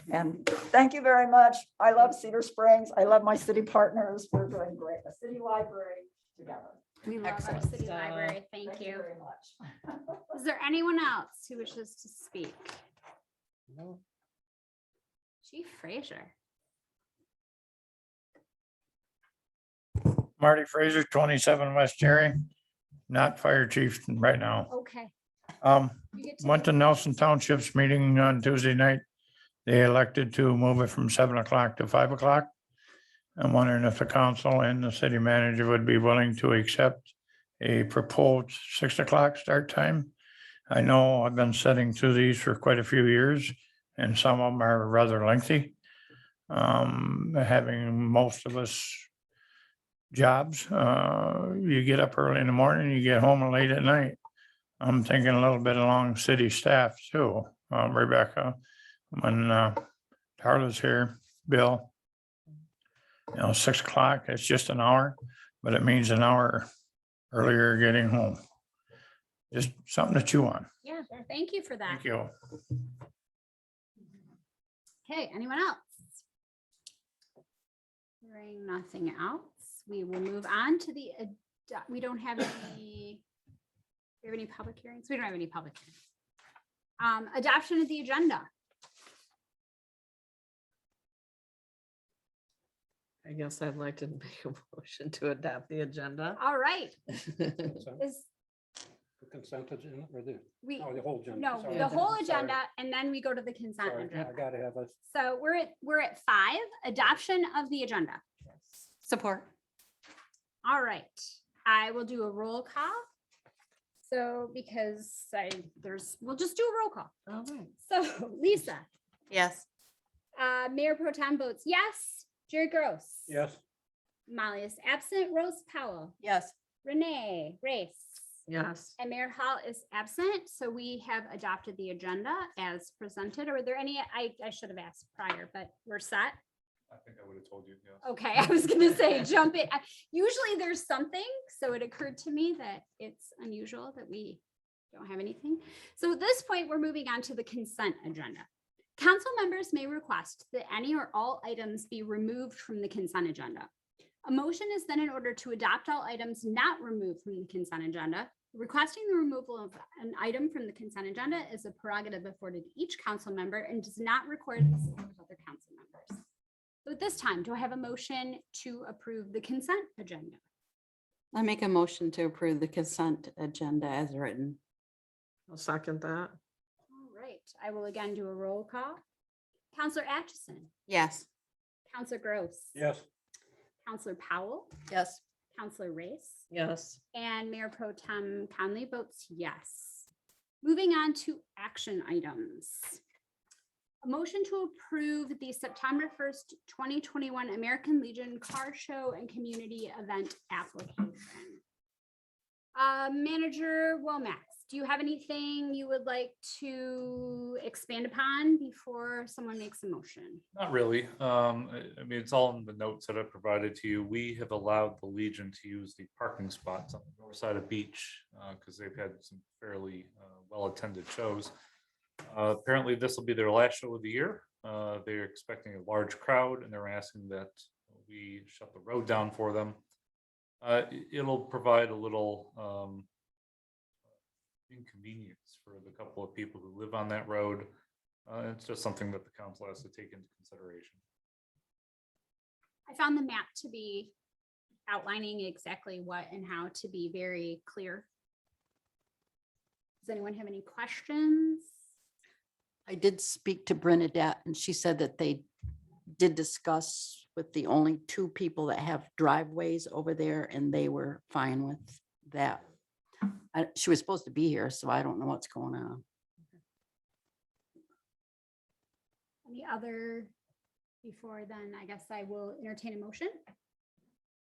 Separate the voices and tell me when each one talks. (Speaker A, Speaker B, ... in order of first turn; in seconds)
Speaker A: 0.1-7.7, 8.6-9.5
Speaker B: 7.0-9.1, 10.3-12.7, 15.4-16.3, 24.7-25.1, 26.1-27.1, 70.8-72.0, 75.0-75.8, 78.2-83.2, 84.2-85.9, 87.0-88.5, 96.3-96.9, 98.0-98.3, 100.6-104.3, 105.0-108.2, 110.6-113.0, 114.0-117.1, 117.8-118.9, 120.3-123.3, 124.3-126.2, 126.8-128.4, 129.0-136.4, 138.0-144.4, 144.9-153.7, 154.2-166.2, 166.8-170.4, 176.9-179.0, 179.7-180.7, 181.9-182.7, 183.8-184.7, 185.5-186.4, 187.1-190.1, 190.6-193.0, 194.0-201.6, 202.7-210.4, 242.9-244.1, 244.9-248.1, 250.0-251.7, 269.4-270.3, 271.0-273.4
Speaker C: 7.8-8.4, 13.7-14.0, 93.2-96.4, 117.3-117.7, 128.5-128.9, 175.5-176.3, 186.5-187.0
Speaker D: 20.0-22.5, 23.1-24.7, 25.6-29.0, 29.6-32.5, 33.4-40.1, 40.7-45.7, 46.5-49.1, 50.1-54.2, 54.8-58.6, 59.1-59.8, 60.4-61.9, 63.3-66.7, 67.3-68.4, 69.5-70.7, 71.9-72.3
Speaker E: 97.8-98.0, 99.2-102.5, 103.8-104.9, 123.3-123.6, 182.7-183.0
Speaker F: 109.0-109.5, 119.3-119.7, 126.2-126.5, 171.3-174.6, 180.9-181.2, 184.9-185.2, 252.9-255.4, 256.1-262.6, 263.2-266.0
Speaker G: 136.9-138.0, 210.5-221.5, 222.2-229.8, 230.6-233.1, 234.7-237.7, 238.3-241.0